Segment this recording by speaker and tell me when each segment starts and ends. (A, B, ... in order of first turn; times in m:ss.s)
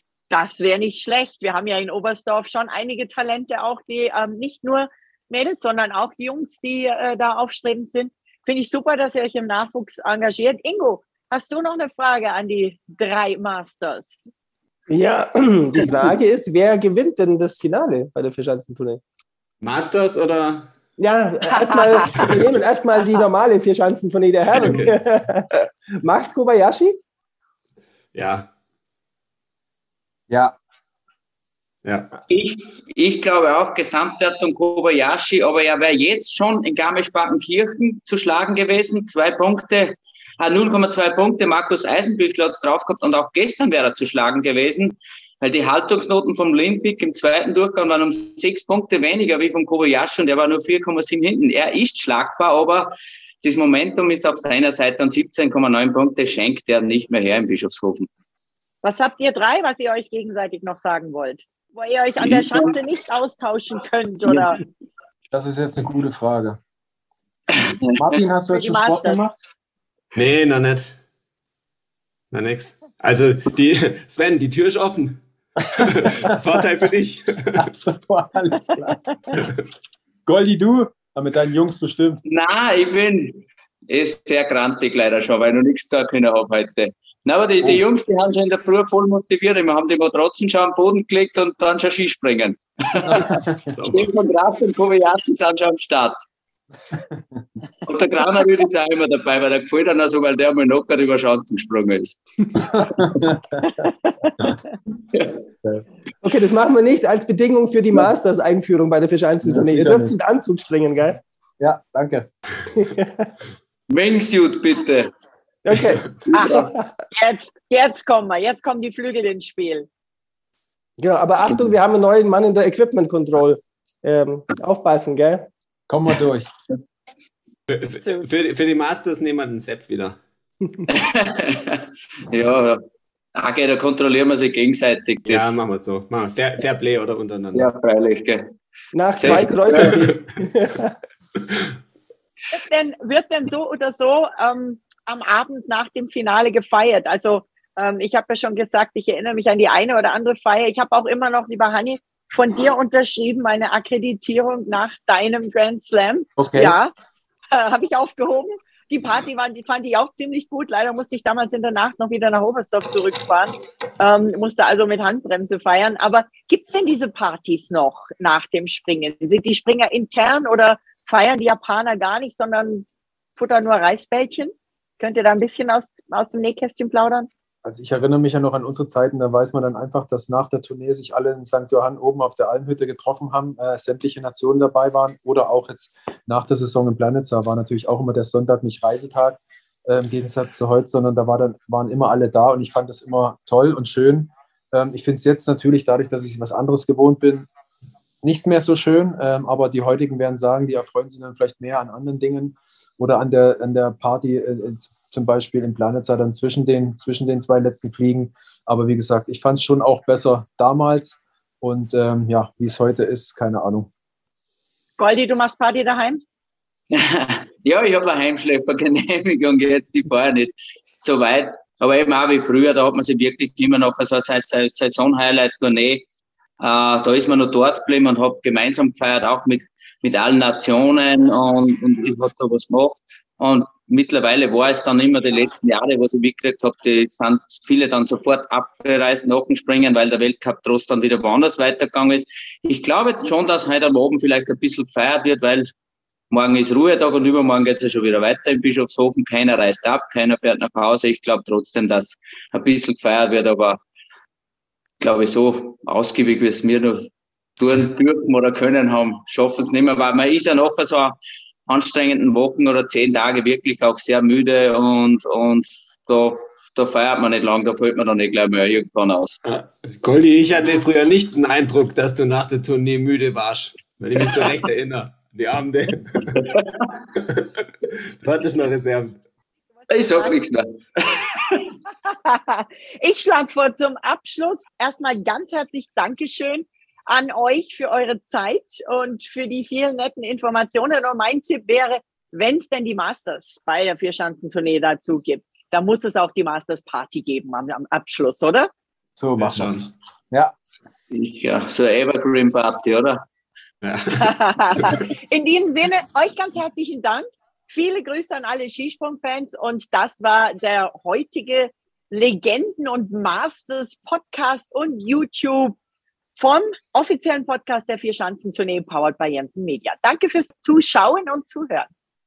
0:00.3-0:14.2 A
0:14.9-0:19.0 B
0:19.6-0:20.7 C
0:21.0-0:27.0 B
0:21.7-0:22.1 A
0:24.6-0:24.9 C
0:28.1-0:28.5 C
0:30.3-0:30.6 D
0:31.8-0:32.1 C
0:32.3-0:58.1 E
0:58.8-1:04.6 A
1:02.2-1:02.7 E
1:05.3-1:06.6 D
1:07.5-1:08.0 E
1:07.9-1:09.3 D
1:08.5-1:09.2 A
1:10.1-1:11.0 C
1:12.3-1:17.7 C
1:15.8-1:16.3 D
1:17.6-1:19.4 D
1:20.3-1:22.2 D
1:22.3-1:36.2 E
1:33.7-1:34.1 C
1:37.9-1:42.2 E
1:42.7-1:43.6 D
1:45.1-1:45.4 E
1:46.2-1:51.2 B
1:49.4-1:50.2 D
1:51.6-1:52.3 D
1:52.8-1:53.3 B
1:53.9-1:55.1 E
1:55.6-1:56.9 B
1:56.3-1:59.9 A
2:01.0-2:05.5 B
2:05.9-2:06.5 D
2:07.7-2:10.2 C
2:10.9-2:12.8 E
2:13.4-2:15.6 E
2:15.3-2:17.7 C
2:17.5-2:18.5 E
2:18.9-2:20.9 B
2:19.2-2:20.0 E
2:19.2-2:20.2 C
2:22.5-2:36.9 A
2:36.4-2:36.8 D
2:37.5-2:57.3 A
2:57.6-3:17.5 D
3:18.2-3:33.9 D
3:35.0-3:36.2 A
3:36.9-3:46.0 E
3:46.6-4:05.7 E
4:06.3-4:13.8 E
4:15.0-4:21.2 E
4:21.7-4:29.4 E
4:29.4-4:36.5 C
4:36.4-4:36.9 E
4:37.2-4:39.2 C
4:39.9-4:41.7 E
4:39.9-4:40.4 A
4:42.0-4:58.7 A
4:59.2-5:00.5 D
4:59.4-4:59.9 C
5:01.1-5:03.2 E
5:03.8-5:05.0 C
5:04.2-5:15.8 A
5:16.4-5:21.9 A